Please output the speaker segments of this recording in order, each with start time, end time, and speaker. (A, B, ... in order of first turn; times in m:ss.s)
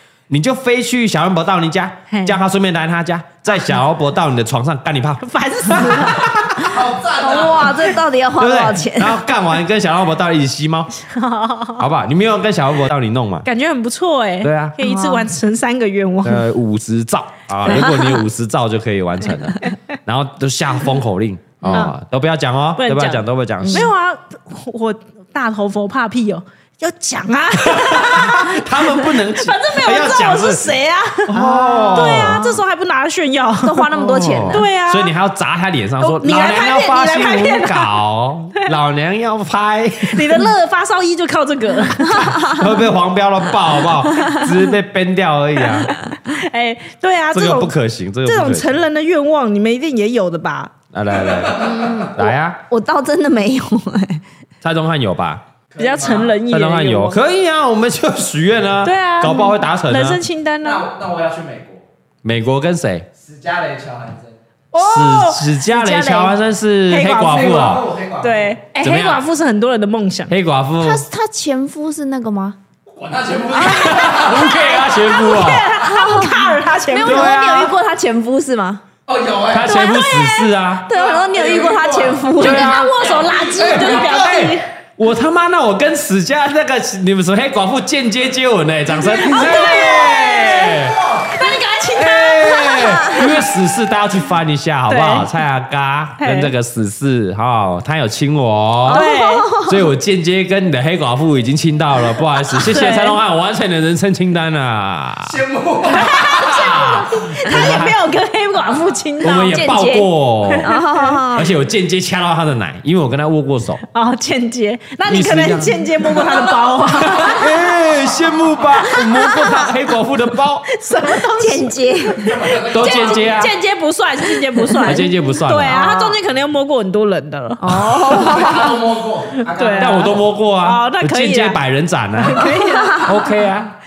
0:00.3-0:06.8 A
0:02.1-0:02.4 B
0:05.2-0:06.3 B
0:06.5-0:08.0 C
0:07.2-0:09.2 D
0:08.4-0:10.9 A
0:11.0-0:11.9 B
0:11.8-0:13.5 A
0:13.4-0:16.5 B
0:14.4-0:14.9 A
0:14.9-0:15.3 D
0:16.2-0:23.9 A
0:17.7-0:18.2 D
0:21.6-0:21.9 D
0:22.8-0:31.4 B
0:23.6-0:23.9 D
0:27.8-0:30.7 A
0:31.3-0:32.4 A
0:31.3-0:32.6 D
0:31.9-0:33.9 B
0:33.6-0:34.7 D
0:33.9-0:40.5 A
0:34.5-0:35.1 B
0:36.0-0:37.9 B
0:40.0-0:42.6 B
0:42.1-0:42.7 D
0:42.3-0:46.0 A
0:45.6-0:47.7 B
0:47.3-0:48.8 A
0:48.2-0:50.7 B
0:50.9-0:52.6 A
0:51.2-0:52.1 C
0:51.5-0:54.2 D
0:54.6-0:55.4 A
0:55.7-0:56.4 C
0:55.8-0:57.2 B
0:56.5-1:00.2 A
0:58.8-1:00.9 B
1:00.6-1:01.8 C
1:02.2-1:03.1 A
1:03.2-1:04.4 C
1:04.7-1:06.3 B
1:04.8-1:07.8 A
1:06.9-1:07.5 B
1:07.1-1:08.6 C
1:08.2-1:10.3 B
1:08.8-1:09.2 A
1:10.3-1:11.0 A
1:10.8-1:12.6 D
1:12.9-1:14.6 C
1:13.6-1:15.7 A
1:13.6-1:18.8 D
1:14.4-1:17.5 B
1:17.0-1:17.7 A
1:19.1-1:19.8 C
1:19.5-1:20.9 A
1:19.7-1:20.5 B
1:20.8-1:22.8 D
1:20.9-1:24.6 C
1:22.4-1:24.7 B
1:22.4-1:22.9 A
1:23.6-1:31.0 A
1:29.0-1:33.3 B
1:30.8-1:31.3 C
1:32.0-1:39.1 A
1:32.6-1:33.3 D
1:34.9-1:35.3 B
1:36.2-1:36.5 B
1:38.8-1:39.9 D
1:38.9-1:39.5 B
1:39.6-1:45.4 A
1:42.5-1:43.2 B
1:45.2-1:46.7 C
1:45.9-1:49.9 B
1:46.0-1:48.0 A
1:49.2-1:50.7 A
1:49.5-1:51.6 D
1:50.5-1:51.2 B
1:51.3-1:53.8 A
1:53.9-1:57.5 B
1:55.1-1:56.4 A
1:57.0-2:00.7 A
1:59.0-1:59.8 D
2:00.7-2:01.7 B
2:01.1-2:02.6 D
2:02.2-2:03.5 C
2:02.3-2:08.3 B
2:02.7-2:03.5 A
2:04.4-2:05.1 D
2:04.8-2:06.1 A
2:07.6-2:08.8 D
2:07.7-2:08.7 A
2:08.1-2:10.3 C
2:09.5-2:11.6 B
2:09.8-2:13.7 A
2:12.2-2:13.1 B
2:12.4-2:13.4 D